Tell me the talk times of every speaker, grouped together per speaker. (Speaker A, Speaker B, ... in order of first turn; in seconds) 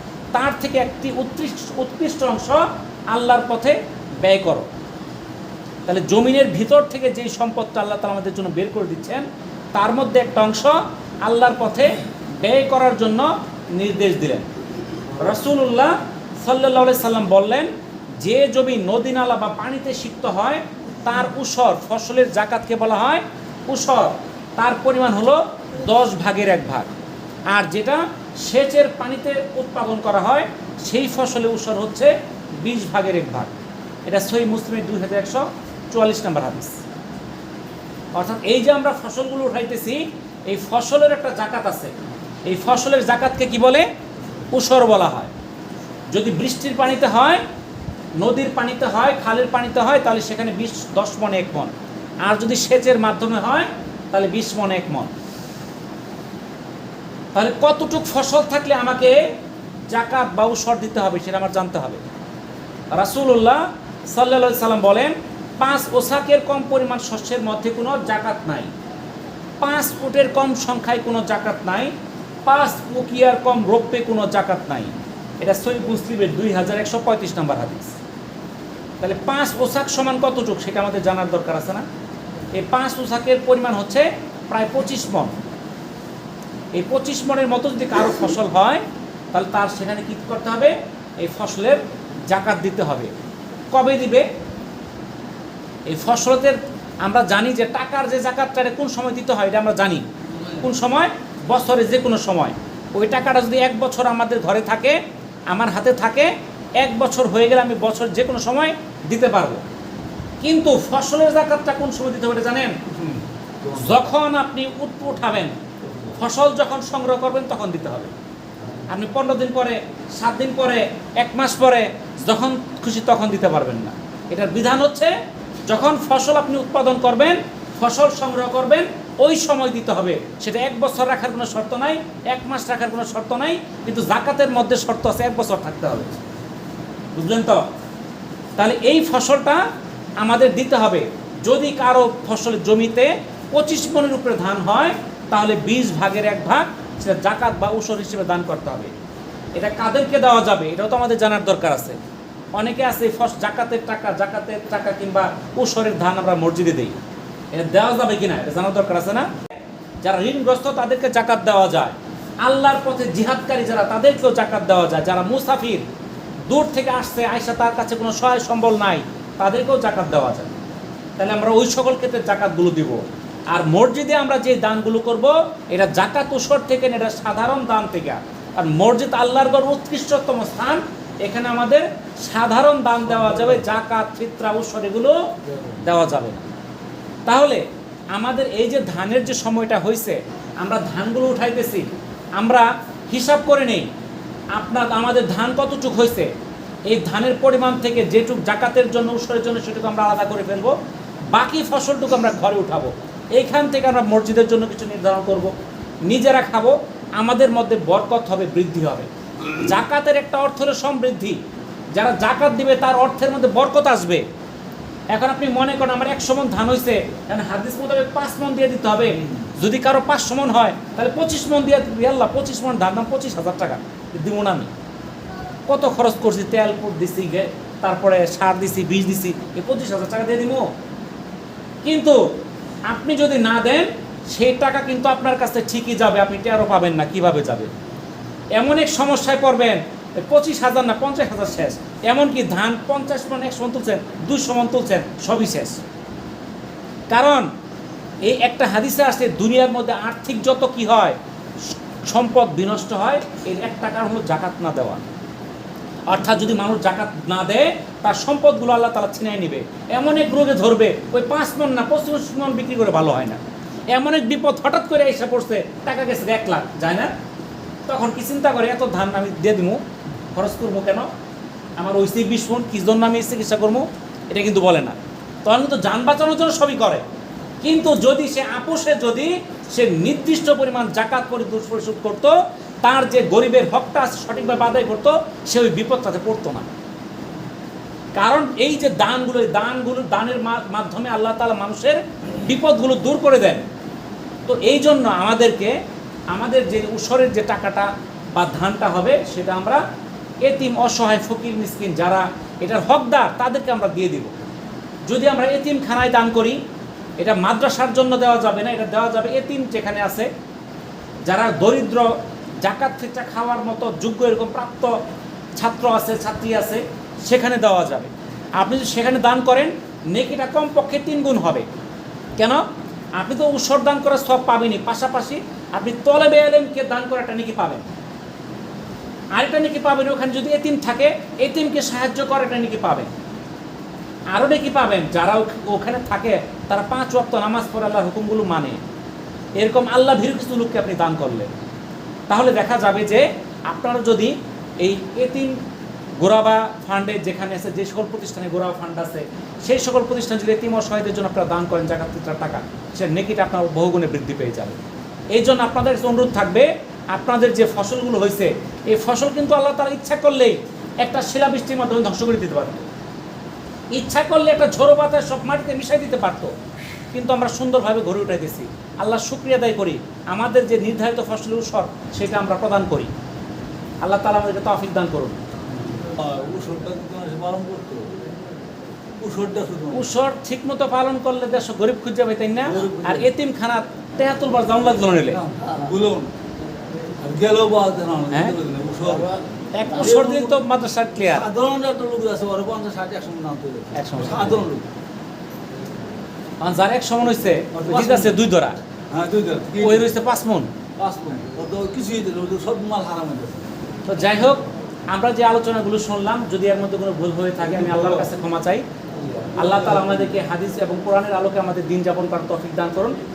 Speaker A: 0.3-4.7, 5.9-14.5, 15.2-26.9, 27.5-33.5, 34.0-36.8, 38.1-41.9, 42.5-43.9, 44.5-45.3, 46.1-47.4, 48.2-51.7, 52.2-55.1, 57.3-59.3, 59.9-62.0, 62.9-68.7, 69.6-71.9, 72.4-78.0, 79.0-81.8, 82.5-85.3, 86.7-93.1, 93.7-94.2, 95.9-105.0, 105.5-109.6, 110.4-112.8, 113.7-115.6, 116.1-118.1, 118.9-125.1, 125.7-136.2, 137.1-137.6, 138.6-139.6, 140.2-148.9, 149.5-152.0, 152.6-157.0, 157.5-159.3, 160.0-165.8, 166.5-170.6, 171.2-185.2, 185.8-186.4, 187.2-193.9, 194.5-196.3, 196.9-200.7, 201.3-205.5, 206.0-211.4, 211.9-214.2, 215.1-224.7, 225.7-230.7, 231.8-232.2, 232.9-237.7, 238.5-245.8, 247.1-247.5, 248.2-251.2, 252.0-255.0, 256.1-263.4, 263.9-267.1, 267.9-269.8, 270.3-271.1, 271.8-277.0, 277.6-286.7, 288.1-293.6, 294.4-295.7, 296.3-299.8, 300.4-304.3, 305.0-306.6, 307.2-310.3, 311.2-314.9, 315.5-321.6, 322.4-322.6, 323.1-327.9, 329.3-333.1, 334.3-338.8, 339.6-341.5, 342.3-345.6, 346.2-354.8, 355.3-362.9, 363.9-366.5, 367.1-373.1, 374.0-375.4, 379.9-385.4, 388.3-391.4, 393.9-394.7, 396.6-398.8, 399.8-400.7, 404.1-408.8, 409.6-413.2
Speaker B: 112.9-113.9, 376.0-378.2, 379.2-380.1, 382.7-383.3, 385.3-386.3, 387.2-389.3, 389.9-390.6, 391.2-394.9, 397.7-398.4, 399.1-400.1, 401.0-403.6, 407.7-408.3